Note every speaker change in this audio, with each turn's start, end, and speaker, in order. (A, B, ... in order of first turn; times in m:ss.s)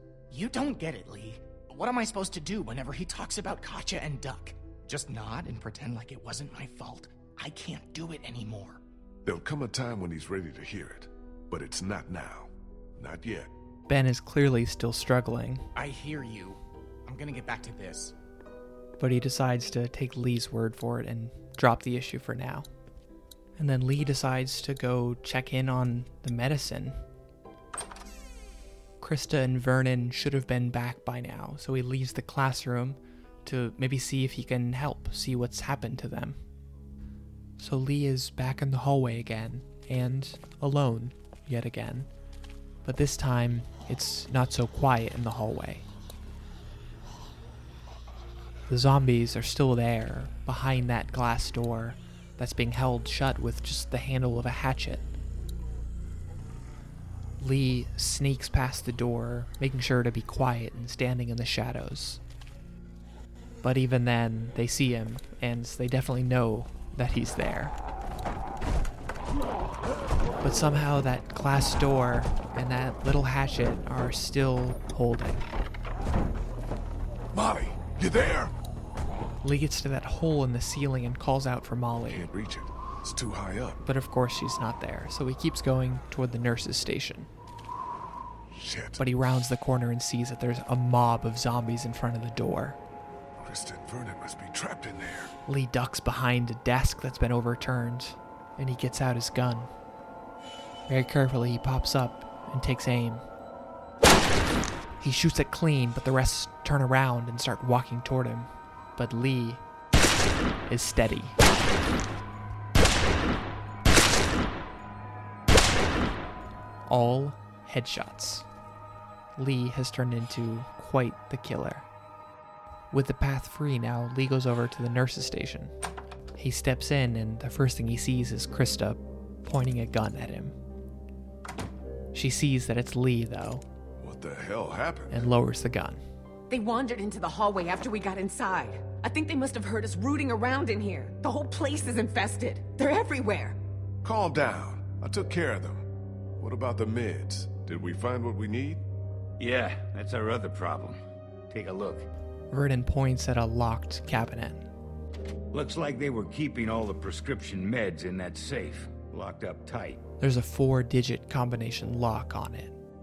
0:00.3-0:08.8 A
0:09.2-0:13.5 B
0:13.9-0:15.6 C
0:15.7-0:18.1 A
0:19.0-0:22.7 C
0:23.6-0:27.0 C
0:29.0-0:36.4 C
0:37.6-0:42.1 C
0:42.8-0:45.8 C
0:48.7-0:55.1 C
0:57.4-1:02.2 C
1:03.6-1:07.7 C
1:10.4-1:15.4 C
1:17.3-1:18.5 B
1:19.4-1:22.2 C
1:22.0-1:23.8 B
1:23.8-1:27.3 C
1:28.5-1:29.0 B
1:29.0-1:32.8 C
1:33.4-1:35.3 B
1:35.5-1:39.7 C
1:40.9-1:43.2 C
1:45.0-1:49.6 C
1:50.7-1:51.4 C
1:56.9-1:58.4 C
1:59.4-2:01.9 C
2:02.9-2:05.7 C
2:06.4-2:10.5 C
2:12.1-2:13.6 C
2:14.0-2:15.3 B
2:15.1-2:16.0 C
2:16.5-2:23.6 D
2:24.0-2:25.8 B
2:26.4-2:28.8 B
2:29.4-2:31.0 E
2:31.5-2:32.1 E
2:32.5-2:34.7 C
2:35.5-2:40.0 E
2:40.2-2:42.7 C